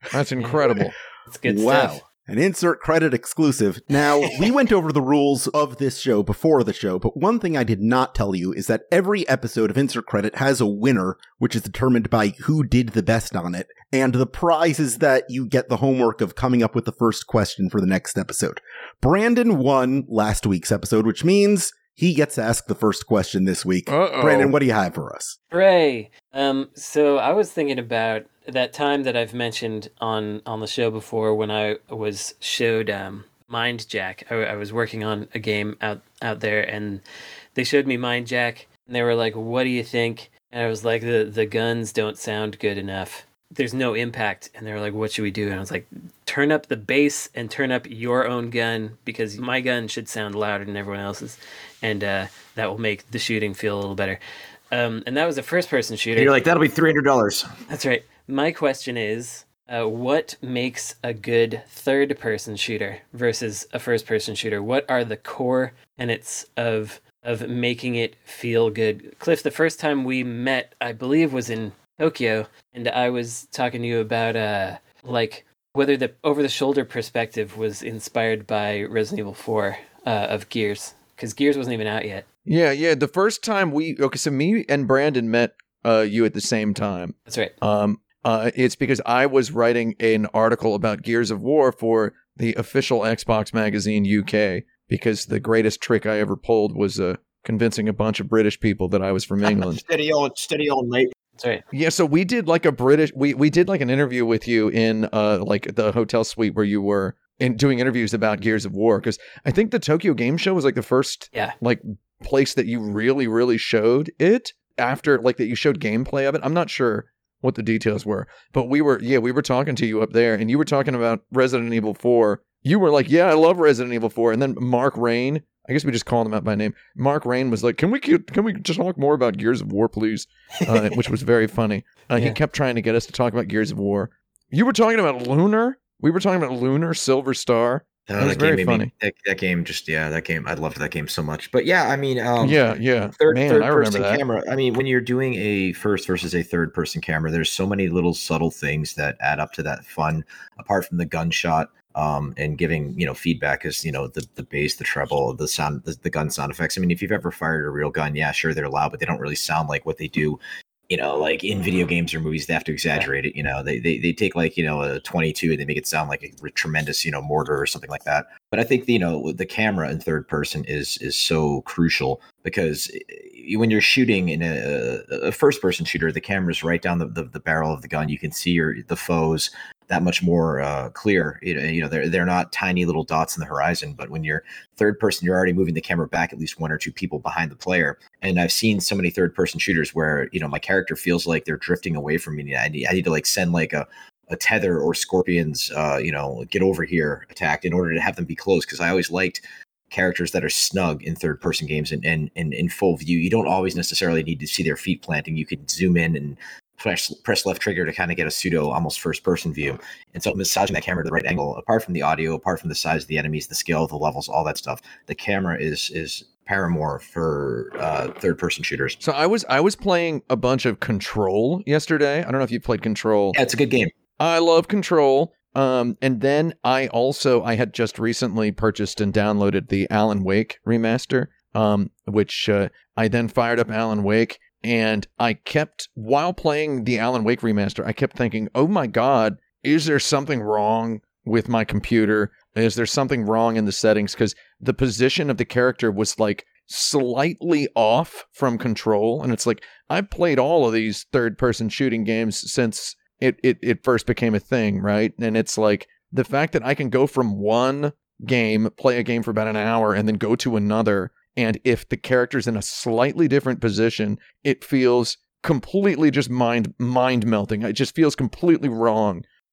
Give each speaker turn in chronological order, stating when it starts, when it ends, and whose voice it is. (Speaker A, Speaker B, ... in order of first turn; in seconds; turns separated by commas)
Speaker A: 0.1-0.9, Speaker B: 1.3-2.0, Speaker C: 1.4-25.3, Speaker A: 23.9-24.5, Speaker B: 25.5-37.0, Speaker B: 37.5-54.2, Speaker B: 54.7-56.3, Speaker D: 56.1-57.5, Speaker B: 57.7-82.2, Speaker A: 82.5-99.8, Speaker B: 87.3-87.5, Speaker D: 99.4-101.1, Speaker B: 101.4-101.6, Speaker A: 101.7-138.9, Speaker D: 138.1-142.7, Speaker A: 142.4-144.2, Speaker D: 143.2-219.0, Speaker A: 219.0-223.4, Speaker D: 223.3-223.9, Speaker A: 224.2-269.2